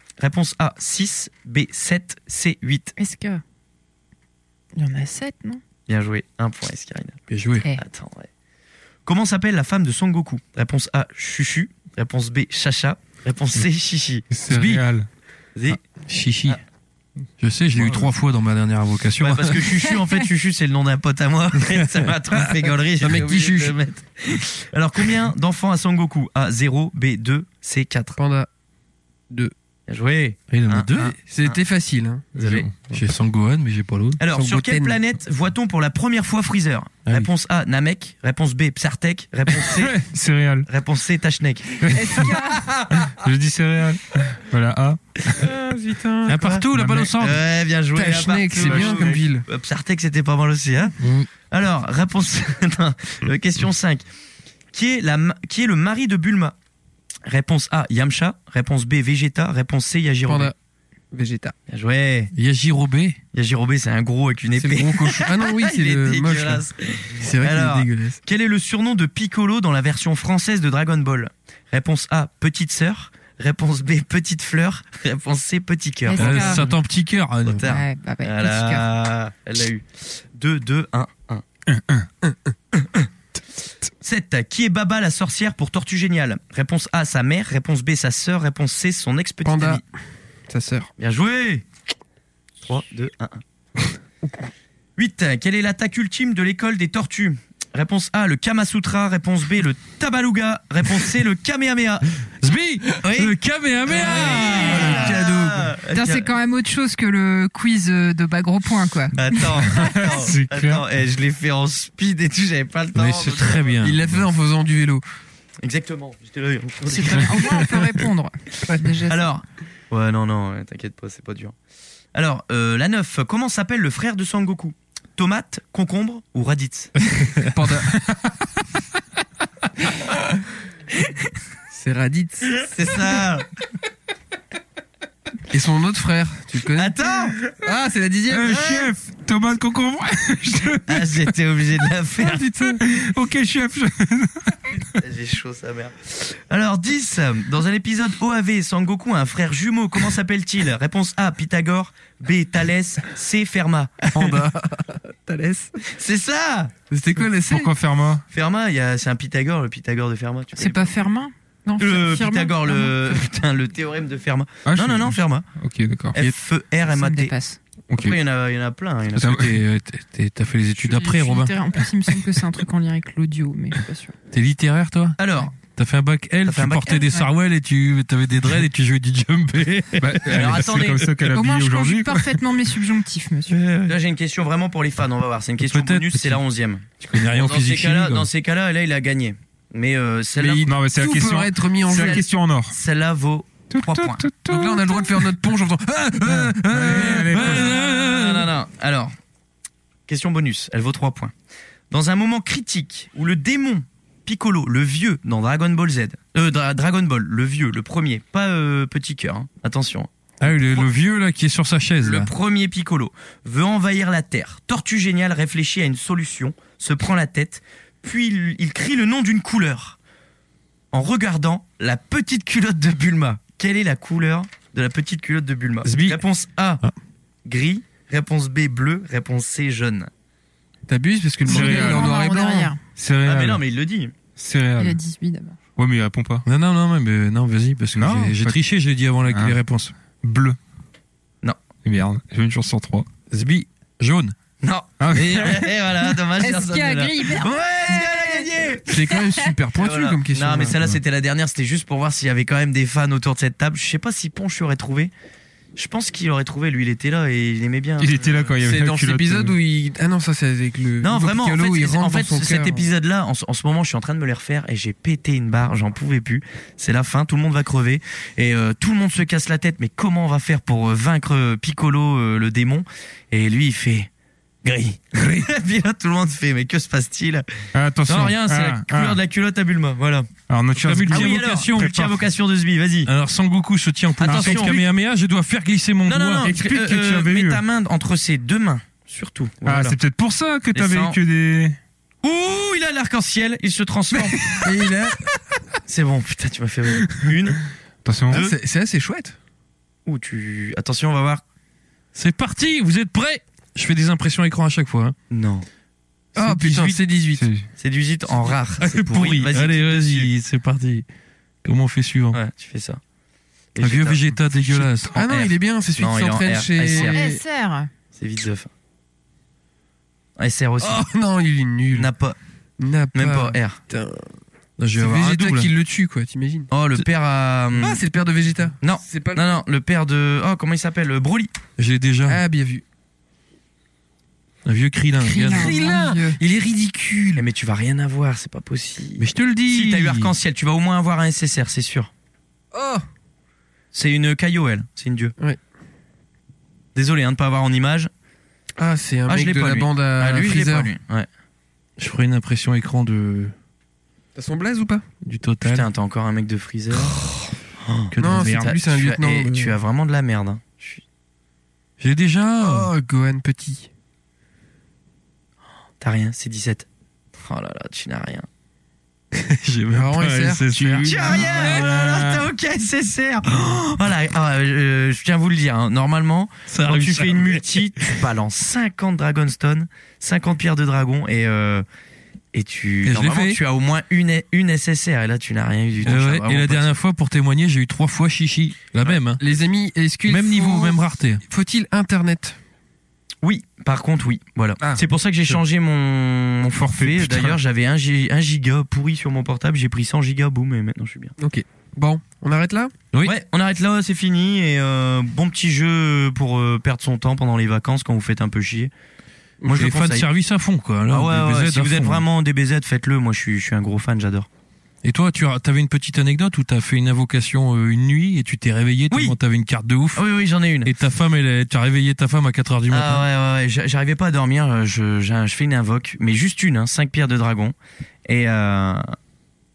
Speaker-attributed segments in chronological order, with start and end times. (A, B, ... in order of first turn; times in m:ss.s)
0:00.2-0:03.0 A
0:03.0-0:03.4 B
0:04.8-0:05.6 B
0:05.9-0:07.2 A
0:07.3-0:07.7 C
0:07.7-0:08.3 A
0:09.1-0:14.8 A
0:14.3-0:15.1 D
0:15.6-0:15.8 A
0:16.0-0:16.6 C
0:17.4-0:19.8 C
0:17.8-0:18.1 D
0:19.2-0:28.2 A
0:23.0-0:23.8 E
0:28.2-0:28.5 E
0:29.9-0:31.6 A
0:30.5-0:31.2 C
0:31.2-0:32.3 E
0:32.4-0:32.7 A
0:32.4-0:32.9 D
0:32.9-0:34.2 C
0:34.2-0:40.0 A
0:34.3-0:35.0 E
0:39.6-0:40.7 D
0:40.7-0:43.2 A
0:41.8-0:45.4 D
0:42.1-0:42.4 B
0:45.4-0:46.4 E
0:46.3-0:47.4 C
0:46.3-0:51.0 A
0:46.7-0:47.1 D
0:48.0-0:49.5 E
0:48.6-0:49.2 D
0:51.0-0:51.3 C
0:51.5-0:54.0 A
0:54.7-0:56.5 A
0:57.3-1:00.5 A
1:00.3-1:00.5 E
1:01.1-1:01.6 E
1:01.7-1:02.3 A
1:02.3-1:03.2 C
1:03.3-1:16.7 A
1:04.6-1:08.2 E
1:16.0-1:16.7 B
1:16.2-1:17.8 C
1:17.4-1:21.4 A
1:17.6-1:18.9 B
1:21.7-1:22.1 D
1:22.7-1:23.1 A
1:24.0-1:29.8 A
1:29.4-1:29.8 E
1:30.5-1:30.9 E
1:31.0-1:31.6 A
1:32.6-1:33.4 A
1:35.0-1:42.1 A
1:42.4-1:45.2 C
1:42.9-1:46.3 A
1:44.0-1:45.7 E
1:45.9-1:50.0 B
1:49.1-1:53.8 A
1:49.6-1:50.8 D
1:52.9-1:54.2 C
1:53.8-1:55.0 E
1:55.6-1:57.7 A
1:56.8-1:59.2 B
1:58.7-1:58.9 E
1:59.1-2:01.6 A
2:02.2-2:07.0 A
2:07.4-2:08.0 E
2:11.7-2:12.9 E
2:12.6-2:13.5 A
2:15.5-2:17.0 E
2:16.8-2:17.4 A
2:17.6-2:18.9 E
2:18.3-2:21.2 D
2:20.9-2:22.5 A
2:22.2-2:22.8 E
2:22.8-2:24.8 D
2:25.0-2:34.4 A
2:34.1-2:35.8 E
2:35.9-2:36.7 A
2:36.9-2:37.7 E
2:37.2-2:38.2 D
2:38.3-2:41.0 A
2:40.6-2:43.2 B
2:41.8-2:45.4 A
2:44.7-2:46.2 D
2:46.1-2:47.4 A
2:46.9-2:47.6 B
2:48.0-2:49.4 A
2:49.2-2:51.8 C
2:50.9-2:54.2 B
2:54.3-3:00.7 C
2:55.2-2:55.6 A
2:56.4-2:57.2 A
2:59.6-3:01.2 A
3:00.0-3:02.3 D
3:01.2-3:03.6 B
3:03.5-3:10.7 A
3:05.6-3:06.4 C
3:07.1-3:08.3 C
3:10.4-3:12.2 E
3:10.7-3:12.8 D
3:11.9-3:14.3 A
3:13.7-3:15.2 D
3:14.4-3:18.5 E
3:16.4-3:18.0 D
3:16.7-3:19.2 A
3:20.1-3:21.3 A
3:21.9-3:30.9 A
3:30.4-3:32.3 C
3:32.0-3:40.0 A
3:40.9-3:46.8 A
3:45.8-3:46.2 C
3:47.5-3:50.1 A
3:50.9-3:52.7 E
3:51.4-3:52.2 D
3:51.5-3:52.8 B
3:53.0-3:53.6 D
3:53.2-3:54.1 A
3:54.4-3:55.0 D
3:54.8-3:55.6 B
3:55.8-3:56.4 D
3:56.4-3:59.9 C
3:58.0-3:58.6 D
3:59.3-3:59.6 D
4:00.2-4:00.6 D
4:01.8-4:03.1 D
4:03.3-4:04.4 C
4:04.6-4:09.0 A
4:05.0-4:05.7 D
4:06.4-4:08.5 B
4:08.9-4:10.8 E
4:09.8-4:15.1 A
4:15.8-4:18.6 A
4:18.0-4:19.6 D
4:18.6-4:22.9 E
4:21.0-4:34.1 A
4:34.6-4:37.5 A
4:35.2-4:35.5 C
4:37.7-4:39.2 D
4:38.1-4:40.3 A
4:40.5-4:41.4 D
4:40.8-4:42.2 C
4:40.9-4:43.1 A
4:43.0-4:46.6 C
4:44.2-4:44.8 A
4:44.2-4:44.8 D
4:46.1-4:50.0 A
4:46.4-4:47.6 D
4:49.6-4:51.8 D
4:50.7-4:51.2 A
4:52.2-4:54.7 A
4:54.6-4:55.3 E
4:55.9-4:57.6 A
4:58.0-4:58.4 D
4:58.3-4:58.6 A
4:58.3-4:59.4 E
5:00.1-5:01.4 A
5:02.1-5:05.2 C
5:05.3-5:05.7 A
5:06.4-5:07.5 E
5:06.4-5:07.0 A
5:06.7-5:07.0 C
5:07.4-5:07.6 D
5:07.8-5:10.3 A
5:08.8-5:11.1 C
5:11.6-5:12.4 C
5:12.3-5:13.0 A
5:13.8-5:17.2 A
5:13.8-5:15.2 C
5:15.1-5:17.4 E
5:16.9-5:17.9 B
5:18.2-5:18.7 A
5:20.4-5:21.1 A
5:20.8-5:22.1 E
5:21.9-5:22.4 A
5:22.8-5:24.3 E
5:23.1-5:23.8 A
5:24.8-5:25.7 C
5:25.0-5:26.7 E
5:26.7-5:28.0 A
5:27.8-5:29.6 E
5:28.8-5:31.5 A
5:31.8-5:32.4 C
5:32.3-5:32.8 E
5:34.6-5:37.5 C
5:35.3-5:36.4 B
5:35.4-5:36.2 E
5:37.4-5:42.1 A
5:39.2-5:40.3 C
5:42.7-5:43.1 E
5:43.9-5:45.4 A
5:47.0-5:48.1 A
5:48.8-5:50.9 E
5:49.3-5:51.3 A
5:52.0-5:53.5 C
5:54.4-5:55.1 E
5:55.2-5:55.9 C
5:55.6-5:57.2 A
5:57.0-5:57.4 C
5:57.8-6:01.0 A
5:58.1-5:58.8 C
5:58.2-5:59.8 E
6:02.0-6:02.9 C
6:02.6-6:03.9 E
6:06.0-6:06.9 A
6:07.4-6:08.5 A
6:09.3-6:12.5 C
6:09.9-6:11.0 E
6:10.7-6:11.2 D
6:11.0-6:21.8 A
6:16.7-6:17.8 C
6:22.5-6:26.9 A
6:23.0-6:23.6 C
6:26.0-6:29.4 C
6:29.3-6:32.6 E
6:30.3-6:31.4 C
6:33.4-6:41.3 A
6:36.9-6:37.6 D
6:41.4-6:42.9 E
6:43.2-6:48.9 A
6:49.6-6:50.3 A
6:49.7-6:52.2 C
6:51.1-6:54.5 A
6:55.0-7:00.2 C
6:59.1-6:59.4 A
7:00.2-7:00.9 A
7:00.8-7:03.3 C
7:02.9-7:07.8 A
7:08.3-7:09.2 A